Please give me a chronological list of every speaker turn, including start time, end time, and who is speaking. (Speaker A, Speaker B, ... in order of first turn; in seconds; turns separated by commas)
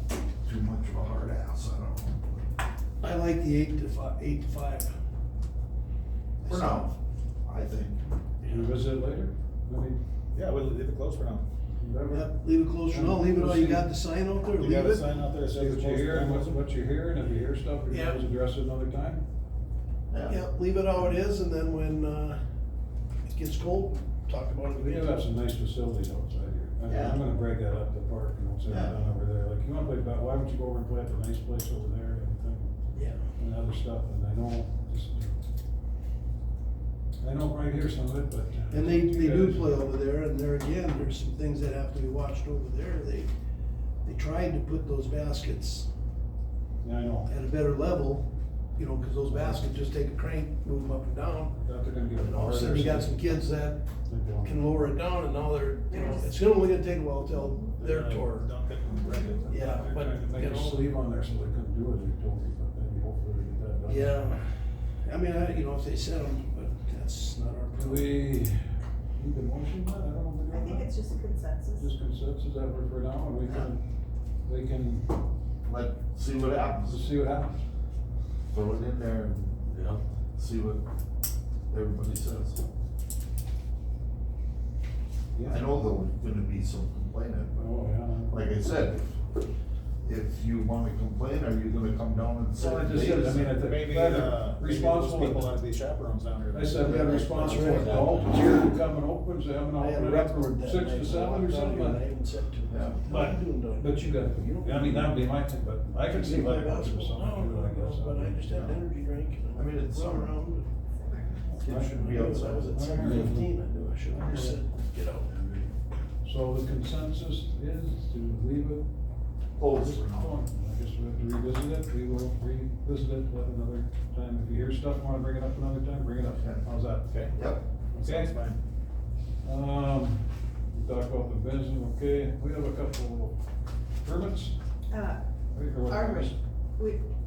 Speaker A: 0.5-2.5, Speaker B: 3.0-4.9, Speaker A: 6.4-6.9, Speaker B: 6.5-6.9, Speaker A: 7.5-8.0, Speaker C: 8.4-10.0, Speaker D: 10.3-11.4, Speaker C: 11.8-12.3, Speaker B: 12.1-15.0, Speaker C: 12.9-13.9, Speaker D: 14.6-16.6, Speaker C: 15.4-19.2, Speaker B: 17.9-18.2, Speaker A: 20.1-20.4, Speaker B: 20.2-22.4, Speaker B: 23.3-25.2, Speaker C: 24.8-32.7, Speaker A: 26.9-27.2, Speaker A: 28.7-29.0, Speaker B: 32.9-33.2, Speaker C: 33.4-35.4, Speaker C: 37.2-39.7, Speaker B: 38.7-43.3, Speaker B: 44.0-45.9, Speaker C: 46.8-47.3, Speaker B: 47.3-51.6, Speaker C: 49.3-49.7, Speaker C: 51.6-53.4, Speaker B: 52.2-53.8, Speaker C: 54.1-54.6, Speaker B: 54.4-58.5, Speaker E: 55.9-56.3, Speaker D: 57.8-60.4, Speaker E: 59.1-59.4, Speaker B: 59.5-60.8, Speaker C: 59.9-64.3, Speaker B: 63.9-68.1, Speaker C: 67.8-68.6, Speaker C: 69.2-70.9, Speaker E: 70.5-71.9, Speaker C: 71.8-73.8, Speaker C: 74.5-75.1, Speaker A: 75.7-77.0, Speaker C: 76.8-77.6, Speaker A: 78.5-79.8, Speaker A: 80.4-80.8, Speaker A: 81.7-82.6, Speaker C: 85.3-85.6, Speaker A: 85.5-87.7, Speaker C: 87.6-88.6, Speaker A: 88.3-89.2, Speaker A: 90.0-93.5, Speaker C: 92.5-95.5, Speaker D: 93.5-98.6, Speaker C: 96.5-102.0, Speaker B: 96.8-98.2, Speaker B: 99.8-105.2, Speaker A: 102.7-103.0, Speaker C: 103.1-108.8, Speaker B: 106.1-110.7, Speaker A: 109.5-110.3, Speaker E: 111.0-111.6, Speaker A: 111.6-113.2, Speaker C: 111.6-113.5, Speaker B: 111.8-115.3, Speaker C: 114.1-114.6, Speaker C: 115.3-115.7, Speaker C: 116.2-118.9, Speaker A: 119.6-120.4, Speaker C: 119.7-127.1, Speaker D: 127.1-127.4, Speaker A: 127.3-127.6, Speaker C: 127.9-128.3, Speaker D: 127.9-128.6, Speaker C: 129.4-133.4, Speaker C: 134.0-134.6, Speaker E: 134.9-135.2, Speaker C: 135.5-136.4, Speaker E: 135.8-137.0